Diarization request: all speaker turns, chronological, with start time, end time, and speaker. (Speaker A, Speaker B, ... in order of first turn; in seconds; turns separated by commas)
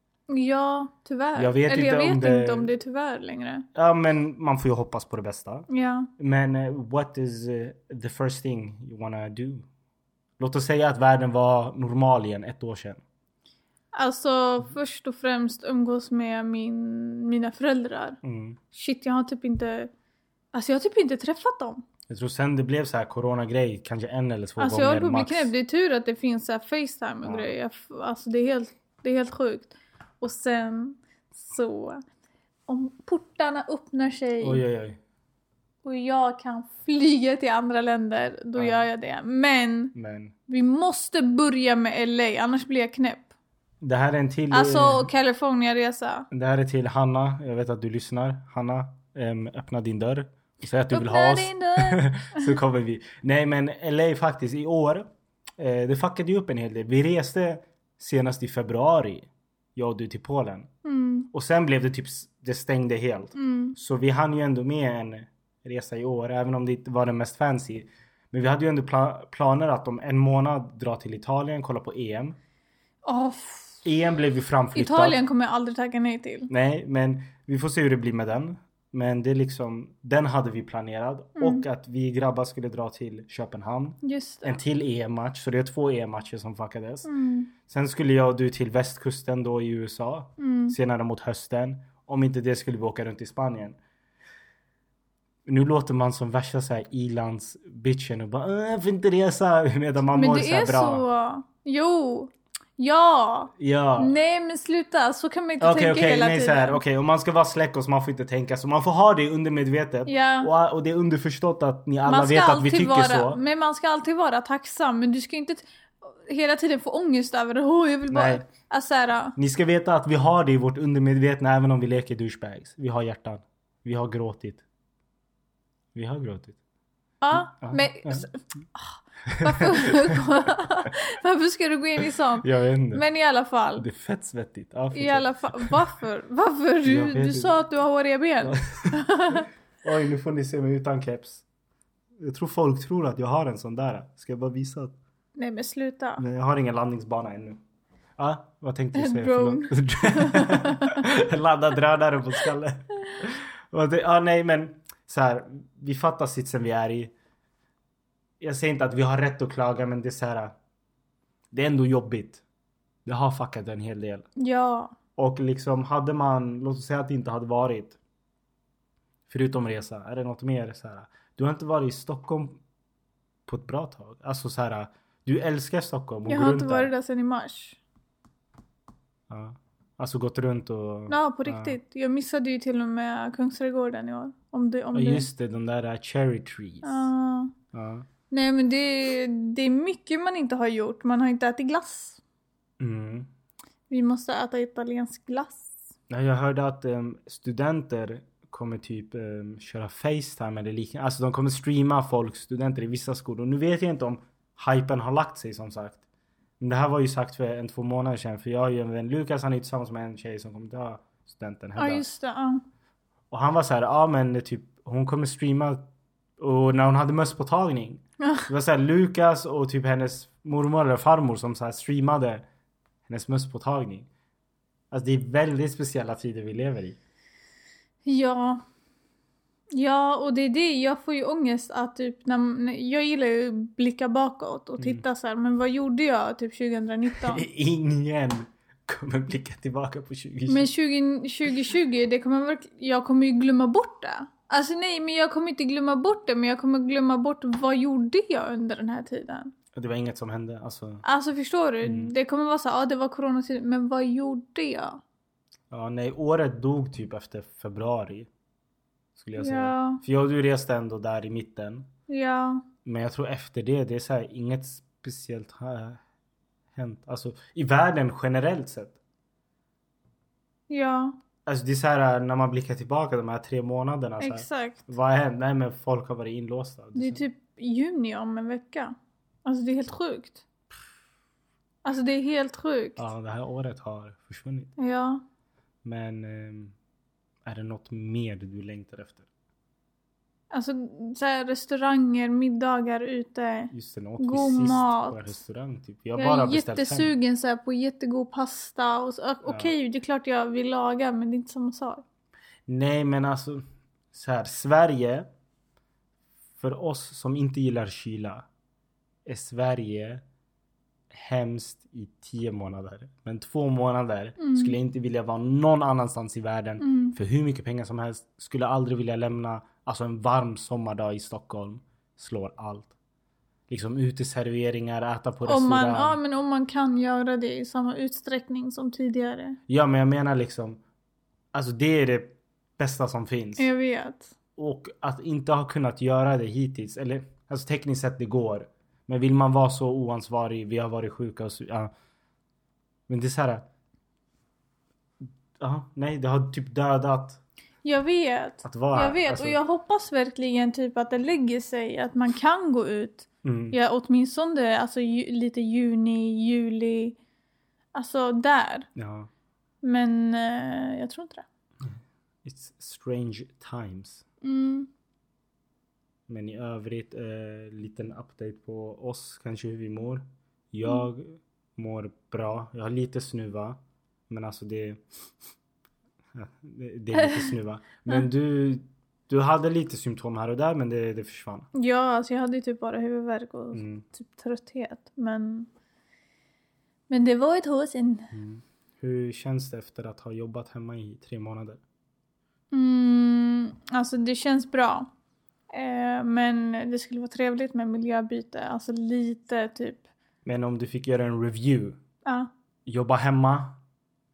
Speaker A: 0.3-3.6, Speaker B: 1.4-2.7, Speaker B: 3.7-5.7, Speaker A: 5.7-6.1, Speaker B: 6.2-9.7, Speaker B: 10.4-13.0, Speaker A: 13.9-18.2, Speaker B: 18.2-18.6, Speaker A: 18.7-19.9, Speaker A: 20.5-21.8, Speaker B: 22.1-25.5, Speaker A: 24.6-32.0, Speaker B: 27.2-27.5, Speaker A: 32.7-34.6, Speaker B: 34.4-35.0, Speaker A: 35.8-39.9, Speaker B: 38.5-38.9, Speaker B: 39.9-40.3, Speaker A: 40.5-43.3, Speaker B: 43.8-45.1, Speaker A: 44.5-46.3, Speaker B: 46.3-55.1, Speaker A: 50.9-52.6, Speaker B: 55.6-60.7, Speaker A: 60.8-61.3, Speaker B: 61.3-72.4, Speaker A: 63.4-63.8, Speaker A: 73.0-73.8, Speaker B: 73.8-75.2, Speaker A: 74.7-76.5, Speaker B: 76.5-87.1, Speaker A: 81.4-81.6, Speaker A: 84.0-84.6, Speaker A: 87.0-87.5, Speaker B: 87.7-93.8, Speaker A: 90.4-90.8, Speaker B: 95.5-101.0, Speaker A: 100.1-106.8, Speaker B: 103.6-104.1, Speaker B: 105.6-113.4, Speaker A: 110.1-110.5, Speaker A: 112.0-119.3, Speaker B: 118.1-118.5, Speaker B: 119.3-124.6, Speaker B: 125.9-126.6, Speaker A: 127.2-133.8, Speaker B: 127.3-128.3, Speaker B: 129.3-130.2, Speaker B: 132.4-133.0, Speaker B: 133.8-135.8, Speaker A: 134.9-139.5, Speaker B: 136.8-137.6, Speaker B: 138.4-141.4, Speaker B: 142.2-144.9, Speaker A: 145.3-146.2, Speaker B: 146.2-147.6, Speaker B: 148.2-157.1, Speaker A: 148.9-151.0, Speaker B: 158.4-160.5, Speaker B: 161.5-162.4, Speaker B: 163.1-164.3, Speaker A: 164.4-164.9, Speaker B: 165.2-168.0, Speaker B: 169.3-172.6, Speaker B: 173.5-176.9, Speaker A: 176.3-177.8, Speaker B: 179.3-181.8, Speaker A: 181.1-185.2, Speaker B: 184.9-187.1, Speaker A: 186.8-187.5, Speaker B: 187.7-188.1, Speaker A: 188.3-192.2, Speaker B: 192.8-193.3, Speaker A: 193.9-195.8, Speaker B: 196.1-206.0, Speaker B: 206.6-212.0, Speaker A: 211.8-212.6, Speaker B: 213.3-215.8, Speaker B: 216.4-222.4, Speaker B: 223.1-224.1, Speaker B: 224.9-227.0, Speaker A: 228.1-228.6, Speaker A: 229.7-237.4, Speaker B: 237.2-240.7, Speaker A: 240.5-249.5, Speaker B: 249.7-251.0, Speaker A: 251.0-255.0, Speaker B: 251.8-252.1, Speaker B: 255.7-258.3, Speaker B: 259.1-261.9, Speaker A: 259.4-260.0, Speaker A: 262.1-262.6, Speaker B: 262.8-266.0, Speaker B: 266.7-269.0, Speaker A: 270.7-271.1, Speaker B: 271.4-277.2, Speaker A: 274.2-274.9, Speaker A: 276.9-280.4, Speaker A: 281.8-283.0, Speaker B: 283.0-284.7, Speaker A: 284.8-285.2, Speaker B: 285.8-286.7, Speaker B: 287.4-289.2, Speaker A: 290.5-295.4, Speaker B: 293.7-297.1, Speaker A: 296.1-302.0, Speaker B: 299.4-299.7, Speaker B: 302.7-305.3, Speaker B: 306.6-308.4, Speaker B: 309.2-310.2, Speaker B: 311.1-322.9, Speaker A: 314.4-314.7, Speaker A: 316.8-317.1, Speaker B: 323.7-326.2, Speaker A: 325.4-329.6, Speaker B: 329.7-330.8, Speaker B: 331.5-333.7, Speaker A: 333.6-334.3, Speaker B: 334.6-341.9, Speaker B: 343.1-343.6, Speaker B: 345.6-347.4, Speaker A: 347.8-357.2, Speaker B: 348.6-349.6, Speaker B: 353.4-353.8, Speaker A: 357.9-358.9, Speaker B: 358.9-359.3, Speaker A: 359.8-361.4, Speaker B: 361.8-364.2, Speaker A: 364.4-364.9, Speaker B: 366.3-375.0, Speaker B: 376.3-381.7, Speaker A: 381.7-385.7, Speaker B: 383.7-384.0, Speaker A: 387.1-388.3, Speaker B: 388.3-391.8, Speaker A: 392.7-395.1, Speaker A: 395.7-400.0, Speaker B: 400.4-402.0, Speaker A: 402.2-402.5, Speaker B: 402.9-403.8